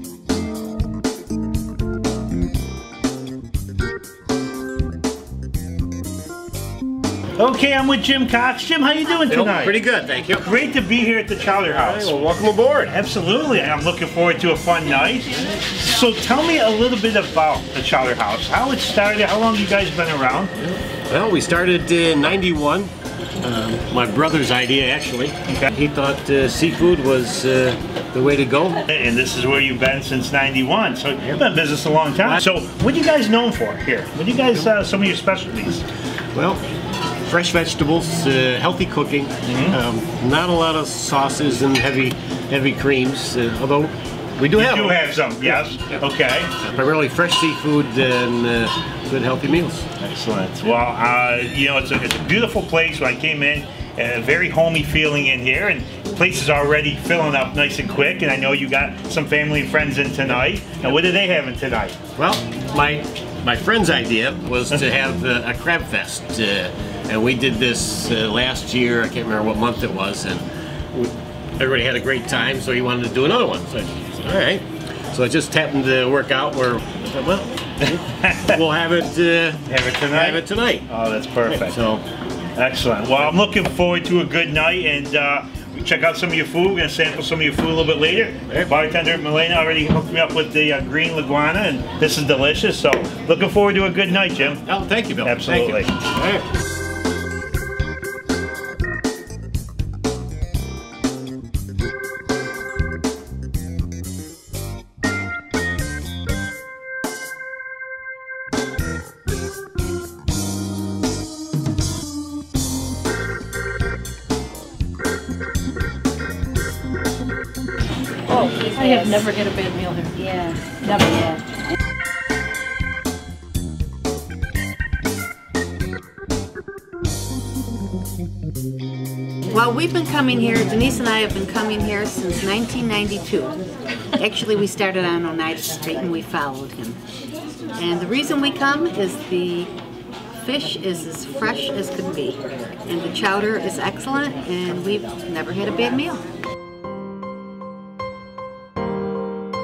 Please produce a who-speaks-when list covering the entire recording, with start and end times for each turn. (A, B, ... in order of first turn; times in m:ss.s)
0:07.4-0:09.8 A
0:09.3-0:10.5 B
0:10.4-0:12.3 A
0:11.6-0:13.0 B
0:12.8-0:20.5 A
0:20.6-0:28.8 B
0:25.5-0:25.7 A
0:28.9-0:35.8 A
0:36.4-0:36.6 B
0:37.2-0:45.6 B
0:39.5-0:39.8 A
0:44.5-0:46.5 A
0:46.6-0:50.0 B
0:50.0-1:02.0 A
1:02.2-1:20.9 B
1:18.2-1:18.6 A
1:19.7-1:21.8 A
1:21.4-1:22.0 B
1:22.6-1:34.6 A
1:34.7-1:36.4 B
1:35.2-1:36.0 A
1:58.3-2:01.4 C
2:09.5-2:13.6 D
2:14.2-2:17.0 D
2:17.8-2:19.7 D
2:20.3-2:26.2 D